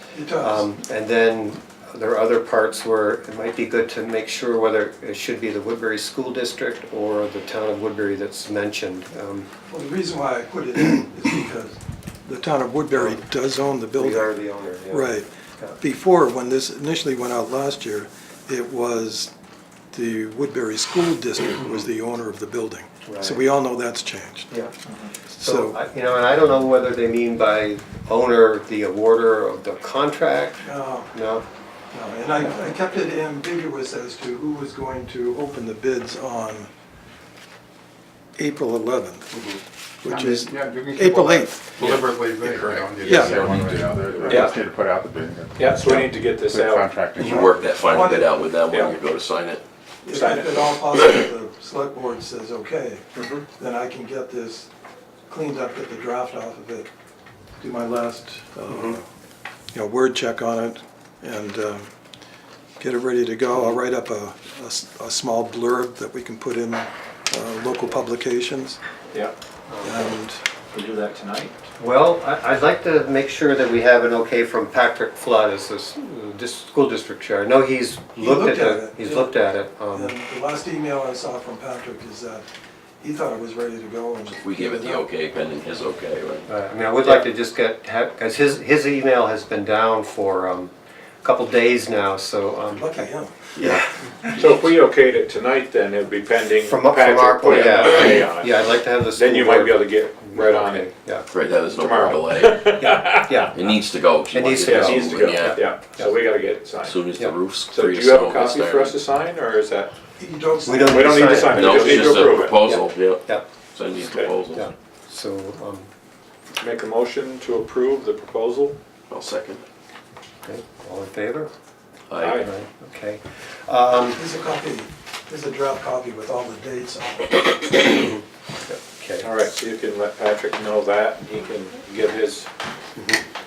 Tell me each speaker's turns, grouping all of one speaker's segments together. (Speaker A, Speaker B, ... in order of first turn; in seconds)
Speaker A: 0.1-0.7, 9.7-14.3, 14.9-15.3, 15.8-19.3, 19.9-24.5, 25.3-25.8, 30.6-31.1, 31.9-36.7, 38.4-39.3, 40.0-41.7, 43.0-43.5, 47.3-48.3, 50.0-53.0, 53.6-54.7, 55.3-56.9, 57.6-59.0, 59.7-61.9, 62.8-68.8, 69.8-70.4, 78.2-79.3, 79.9-82.5, 83.0-85.1, 92.7-93.5, 110.2-111.6, 124.1-127.5
Speaker B: 0.4-9.5, 14.0-15.8, 23.0-23.4, 25.4-31.4, 47.2-47.5, 58.7-59.0, 69.7-70.1, 71.8-80.1, 86.5-92.9, 96.6-101.3, 102.8-103.6, 104.3-106.0, 110.6-113.4, 114.5-115.9, 120.4-121.5, 122.4-124.2, 128.7-129.3
Speaker C: 40.0-48.1
Speaker D: 43.1-44.5, 47.2-49.6, 84.3-86.5, 93.6-93.8, 97.5-98.2, 101.3-103.0, 103.5-105.7, 106.8-109.0, 111.5-114.7, 119.1-119.6, 122.1-122.4
Speaker E: 44.2-44.5, 45.5-46.9, 48.7-49.0, 50.1-50.7, 53.1-53.5, 70.7-71.5, 94.2-98.6, 99.1-100.9, 101.7-103.5, 104.6-107.0, 107.7-109.9, 110.9-112.6, 114.0-114.3, 116.6-118.8, 122.2-122.5, 129.2-132.5